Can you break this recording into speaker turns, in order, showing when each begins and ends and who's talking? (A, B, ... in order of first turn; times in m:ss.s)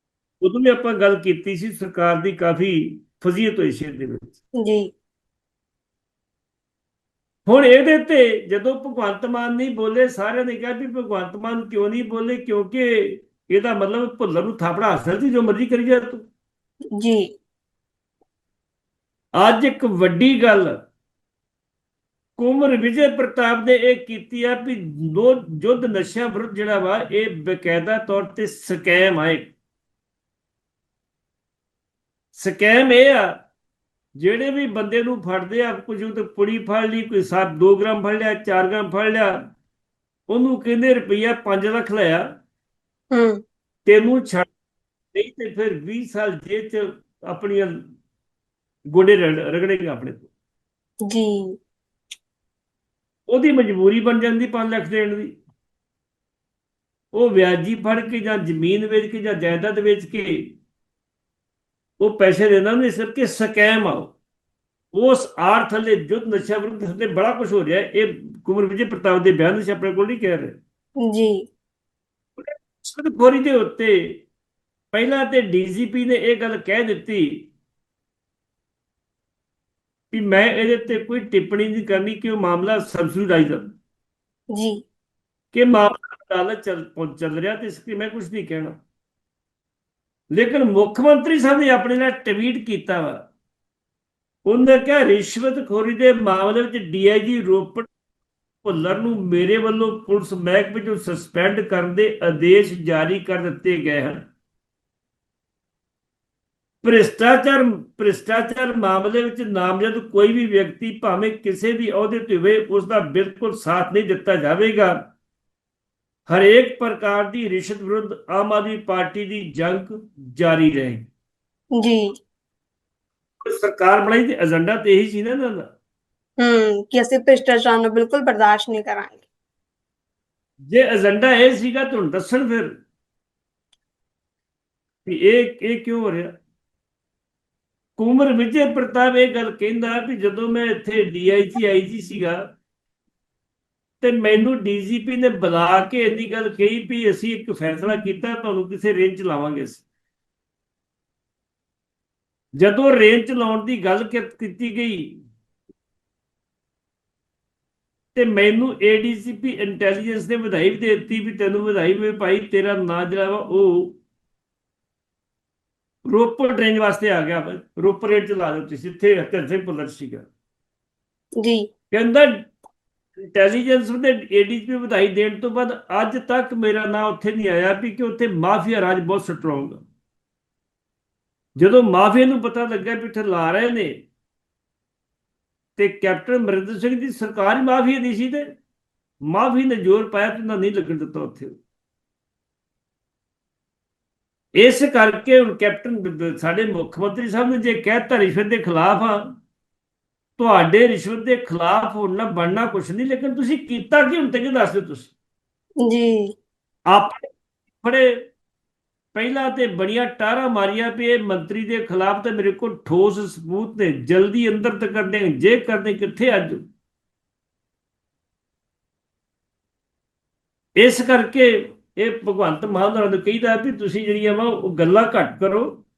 0:00.4-0:04.4 A
0:04.6-0:04.9 B
0:07.5-0:16.2 A
0:17.0-0:17.3 B
0:19.4-0:20.8 A
0:22.4-0:29.5 A
0:32.4-0:33.4 A
0:34.2-0:39.4 A
0:40.3-0:42.3 A
0:43.1-0:43.4 B
0:43.9-0:44.5 A
0:45.1-0:47.8 A
0:48.9-0:50.3 A
0:51.1-0:51.6 B
0:53.3-0:55.3 A
0:57.1-1:00.4 A
1:02.0-1:04.1 A
1:04.9-1:10.6 A
1:11.0-1:11.5 B
1:12.4-1:14.2 A
1:14.9-1:17.5 A
1:20.1-1:23.7 A
1:24.5-1:24.8 B
1:25.5-1:28.8 A
1:30.3-1:33.2 A
1:34.5-1:37.9 A
1:38.6-1:44.2 A
1:46.8-1:54.9 A
1:56.3-2:01.1 A
2:01.8-2:02.1 B
2:03.4-2:05.7 A
2:06.4-2:09.2 B
2:10.7-2:12.7 A
2:15.0-2:16.4 A
2:18.0-2:22.4 A
2:24.0-2:29.8 A
2:32.6-2:35.2 A
2:38.2-2:44.0 A
2:46.0-2:50.3 A
2:51.4-2:51.7 B
2:51.9-2:52.5 A
2:53.2-2:59.8 A
3:01.6-3:04.0 A
3:05.8-3:08.6 A
3:09.3-3:11.6 A
3:14.6-3:19.3 A
3:20.4-3:25.1 A
3:25.8-3:26.3 B
3:26.9-3:27.3 A
3:27.8-3:28.2 A
3:29.2-3:36.6 A
3:40.8-3:45.7 A